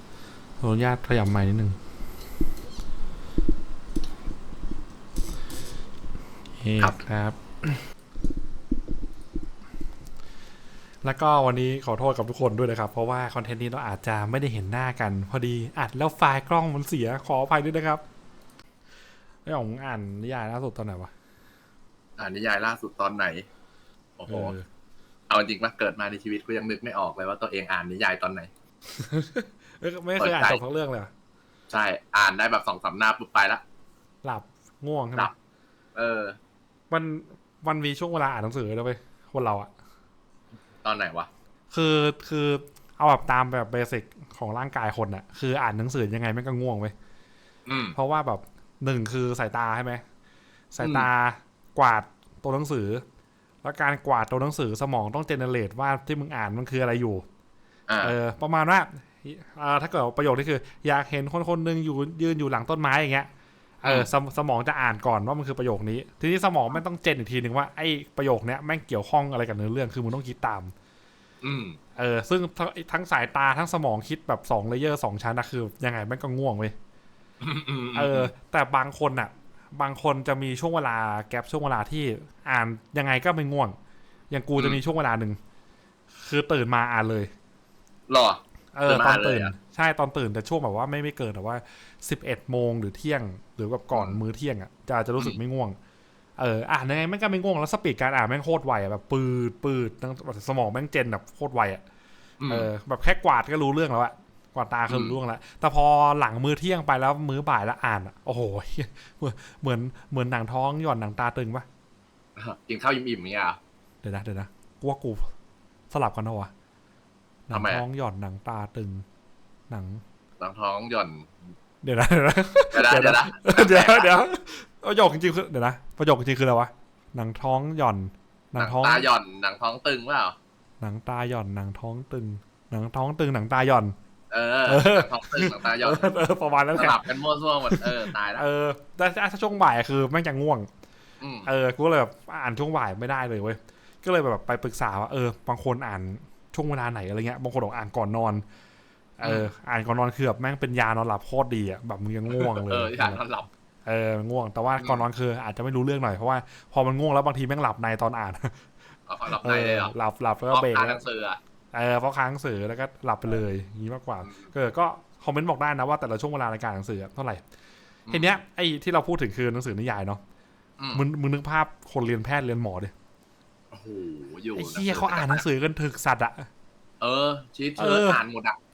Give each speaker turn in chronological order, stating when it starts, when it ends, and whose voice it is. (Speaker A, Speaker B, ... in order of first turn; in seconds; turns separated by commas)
Speaker A: 0.6-1.8, Speaker A: 6.6-7.8, Speaker A: 11.0-18.0, Speaker A: 19.4-21.1, Speaker B: 22.2-23.4, Speaker B: 24.2-24.5, Speaker A: 24.3-24.6, Speaker B: 25.3-28.5, Speaker A: 28.9-31.1, Speaker B: 30.2-30.6, Speaker B: 31.7-33.6, Speaker A: 34.2-35.3, Speaker B: 35.9-36.4, Speaker A: 36.9-39.7, Speaker B: 40.8-41.3, Speaker A: 41.7-46.9, Speaker B: 47.6-48.0, Speaker A: 47.9-50.0, Speaker A: 50.7-53.0, Speaker B: 50.8-51.1, Speaker A: 53.6-57.2, Speaker B: 57.9-58.1, Speaker A: 58.0-63.3, Speaker A: 63.8-70.7, Speaker B: 71.4-71.8, Speaker A: 72.0-76.7, Speaker B: 77.4-78.3, Speaker A: 77.9-83.8, Speaker A: 84.3-85.4, Speaker A: 86.2-87.3, Speaker B: 88.1-89.5, Speaker A: 88.7-95.8, Speaker A: 96.4-101.8, Speaker B: 102.4-102.7, Speaker A: 102.5-111.7, Speaker B: 104.9-105.2, Speaker B: 112.3-113.6, Speaker A: 114.0-115.3, Speaker A: 115.9-116.5, Speaker A: 117.5-119.0, Speaker B: 117.5-117.8, Speaker A: 119.7-120.0, Speaker B: 120.4-121.3, Speaker A: 121.8-129.1, Speaker B: 122.7-124.1, Speaker B: 128.6-130.3, Speaker A: 130.8-133.9, Speaker B: 134.3-136.1, Speaker A: 134.7-137.0, Speaker B: 136.7-138.4, Speaker A: 137.7-140.7, Speaker B: 141.2-141.5, Speaker A: 141.4-148.4, Speaker A: 149.2-153.2, Speaker B: 149.2-149.5, Speaker B: 152.3-153.5, Speaker A: 153.8-158.6, Speaker B: 154.8-155.0, Speaker B: 159.1-159.9, Speaker A: 159.3-161.0, Speaker B: 160.5-161.4, Speaker A: 161.7-167.4, Speaker A: 168.1-170.2, Speaker B: 170.8-171.0, Speaker A: 170.9-172.9, Speaker B: 173.7-175.4, Speaker A: 174.6-176.5, Speaker B: 177.0-178.6, Speaker A: 177.8-178.2